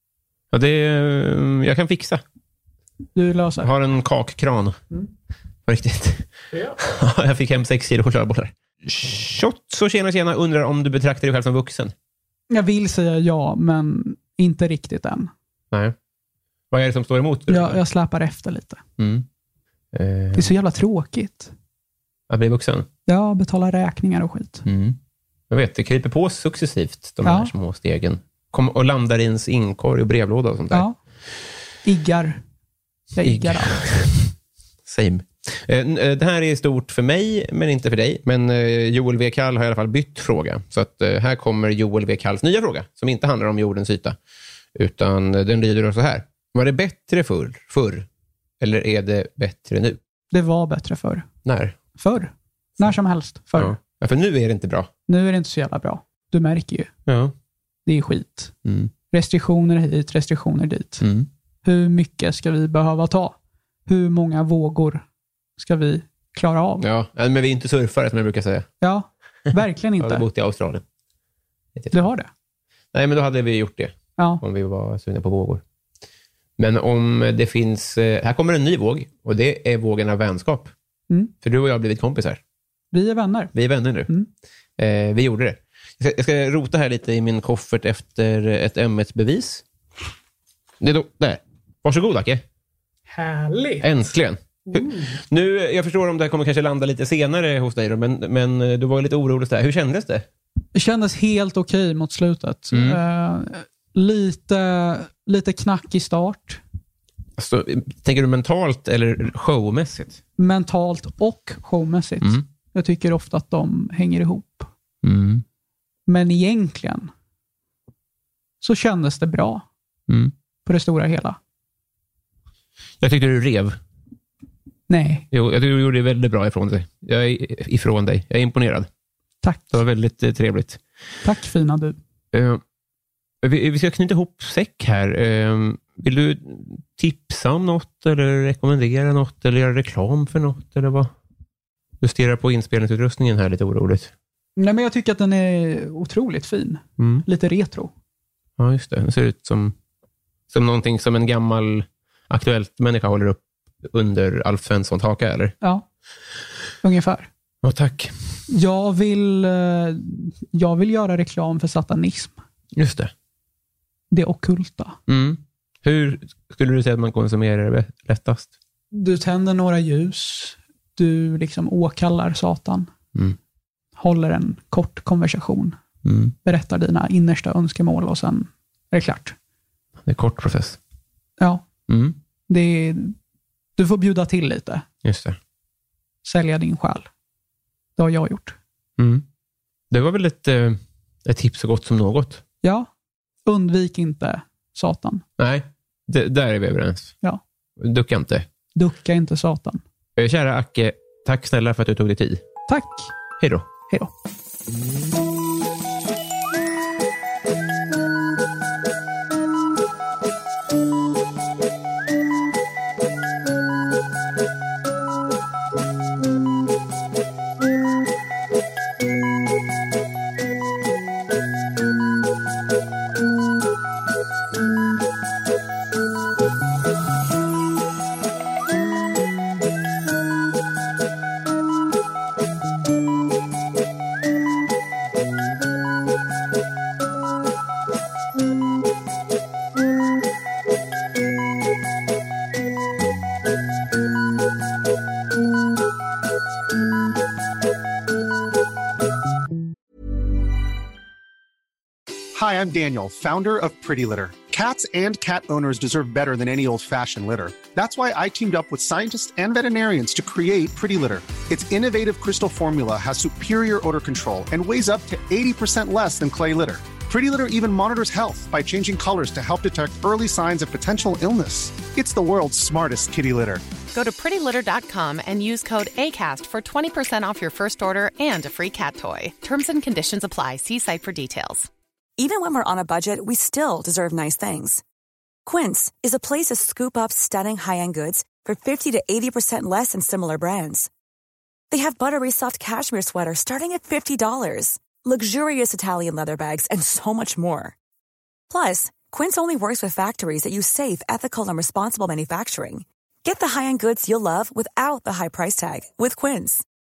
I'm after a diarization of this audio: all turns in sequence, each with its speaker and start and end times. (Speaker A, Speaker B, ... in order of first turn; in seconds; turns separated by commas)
Speaker A: 0.5-2.2, Speaker B: 3.1-3.7, Speaker A: 3.6-4.8, Speaker A: 5.7-11.9, Speaker B: 12.5-15.3, Speaker A: 16.7-17.8, Speaker B: 17.5-18.8, Speaker A: 19.0-19.2, Speaker A: 19.9-20.5, Speaker B: 20.3-21.5, Speaker A: 22.3-22.9, Speaker B: 23.1-24.6, Speaker A: 24.7-25.0, Speaker A: 25.5-30.9, Speaker B: 27.2-27.5, Speaker B: 31.8-32.4, Speaker B: 33.1-33.8, Speaker A: 33.2-34.3, Speaker A: 34.9-44.2, Speaker A: 44.7-48.0, Speaker A: 48.6-50.0, Speaker B: 50.3-51.3, Speaker A: 51.5-51.8, Speaker B: 52.0-53.8, Speaker A: 53.5-54.9, Speaker B: 55.1-56.9, Speaker A: 57.1-57.3, Speaker B: 57.9-58.5, Speaker A: 58.6-58.9, Speaker B: 59.1-61.0, Speaker A: 61.0-61.3, Speaker B: 61.6-63.3, Speaker B: 63.9-65.0, Speaker B: 65.6-66.9, Speaker A: 66.8-68.7, Speaker B: 68.8-70.2, Speaker A: 70.0-70.8, Speaker B: 71.9-72.3, Speaker A: 72.9-75.6, Speaker B: 74.2-74.4, Speaker A: 76.6-80.7, Speaker A: 81.4-82.4, Speaker B: 82.9-83.5, Speaker A: 83.5-84.1, Speaker A: 84.8-89.6, Speaker A: 90.8-92.4, Speaker B: 93.1-93.8, Speaker A: 93.8-100.2, Speaker B: 94.7-95.2, Speaker B: 100.7-106.6, Speaker A: 102.7-103.0, Speaker A: 107.4-110.2, Speaker B: 110.4-114.7, Speaker A: 115.0-115.4, Speaker B: 116.1-117.1, Speaker B: 118.6-119.6, Speaker A: 120.1-120.3, Speaker B: 120.6-121.4, Speaker A: 123.0-123.8, Speaker B: 124.9-125.3, Speaker A: 125.3-128.9, Speaker B: 129.4-129.7, Speaker A: 129.7-130.8, Speaker B: 131.2-131.9, Speaker A: 132.3-132.6, Speaker A: 133.4-141.1, Speaker A: 142.0-144.1, Speaker B: 144.6-147.9, Speaker A: 147.0-147.2, Speaker A: 148.6-149.7, Speaker A: 150.5-155.5, Speaker B: 156.8-157.3, Speaker A: 157.6-158.1, Speaker B: 158.5-162.3, Speaker A: 162.7-163.1, Speaker B: 164.1-165.0, Speaker A: 165.1-168.5, Speaker B: 168.9-172.9, Speaker B: 174.0-175.8, Speaker A: 176.0-176.3, Speaker B: 176.4-179.3, Speaker A: 180.0-180.8, Speaker B: 181.4-181.6, Speaker A: 181.9-182.2, Speaker B: 182.5-183.1, Speaker B: 183.8-184.8, Speaker A: 185.0-185.4, Speaker B: 186.2-187.1, Speaker B: 188.0-188.6, Speaker A: 189.0-189.2, Speaker A: 189.9-192.4, Speaker B: 192.6-192.9, Speaker B: 193.4-195.2, Speaker A: 195.4-197.1, Speaker A: 197.8-198.5, Speaker B: 198.7-199.8, Speaker A: 200.2-202.4, Speaker B: 202.7-203.1, Speaker A: 203.4-203.7, Speaker C: 252.3-273.6, Speaker D: 273.9-281.7, Speaker E: 282.2-284.8, Speaker E: 285.4-290.9, Speaker E: 291.7-297.7, Speaker E: 298.5-306.6